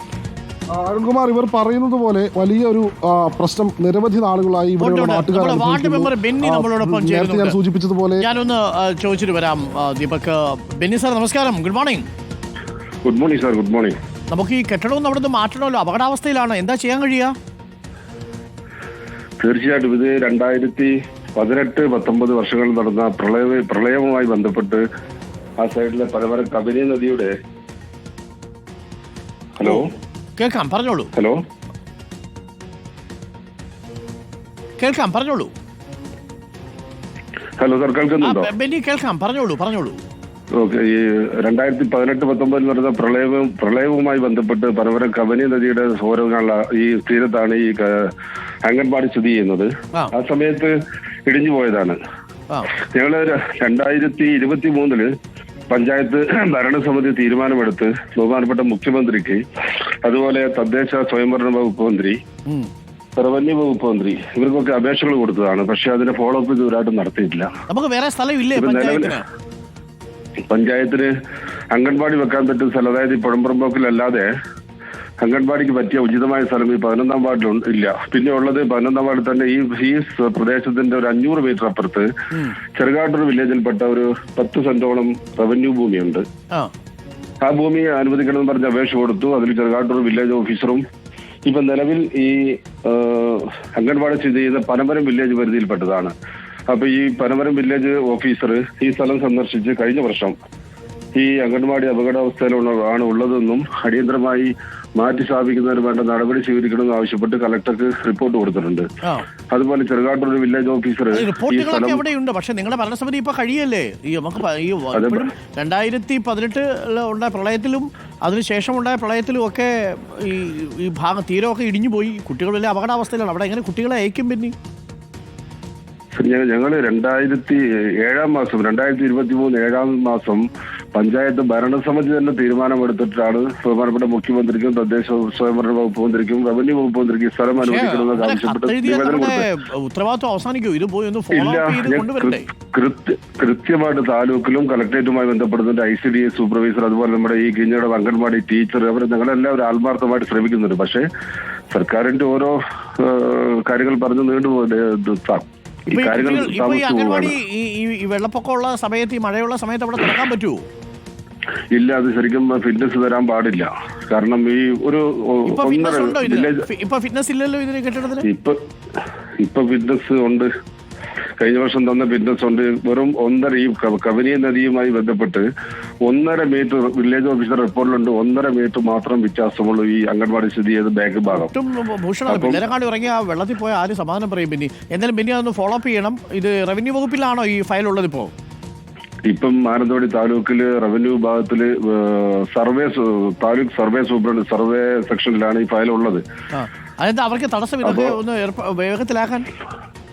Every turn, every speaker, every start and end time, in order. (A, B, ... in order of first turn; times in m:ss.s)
0:00.8-0:08.2 A
0:04.8-0:07.6 B
0:08.2-0:12.1 B
0:13.0-0:14.0 C
0:14.3-0:17.3 B
0:19.4-0:24.8 C
0:25.6-0:27.3 C
0:29.6-0:29.9 C
0:30.4-0:31.1 B
0:34.8-0:35.5 B
0:37.6-0:38.5 C
0:38.2-0:40.0 B
0:40.6-0:48.1 C
0:48.6-0:50.8 C
0:51.3-0:52.0 C
0:52.9-0:55.1 C
0:55.7-0:59.4 C
1:00.0-1:02.2 C
1:03.2-1:07.5 C
1:07.7-1:09.2 B
1:08.6-1:09.2 C
1:10.5-1:11.1 C
1:11.7-1:14.3 C
1:15.2-1:22.1 C
1:22.8-1:26.2 C
1:27.4-1:30.8 C
1:31.5-1:36.1 C
1:36.7-1:40.3 C
1:41.2-1:48.9 C
1:49.5-1:52.0 C
1:51.1-2:04.5 B
1:54.9-1:55.2 C
2:06.2-2:19.4 C
2:17.6-2:22.4 B
2:21.3-2:31.0 C
2:31.7-2:37.3 C
2:35.9-2:40.6 B
2:41.7-2:46.6 C
2:45.5-2:48.3 B
2:48.2-2:48.6 C
2:49.4-2:50.5 C
2:51.4-2:55.5 C
2:56.0-3:01.5 C
3:01.3-3:08.3 B
3:02.3-3:02.6 C
3:09.3-3:16.2 C
3:16.5-3:19.5 B
3:17.9-3:18.1 C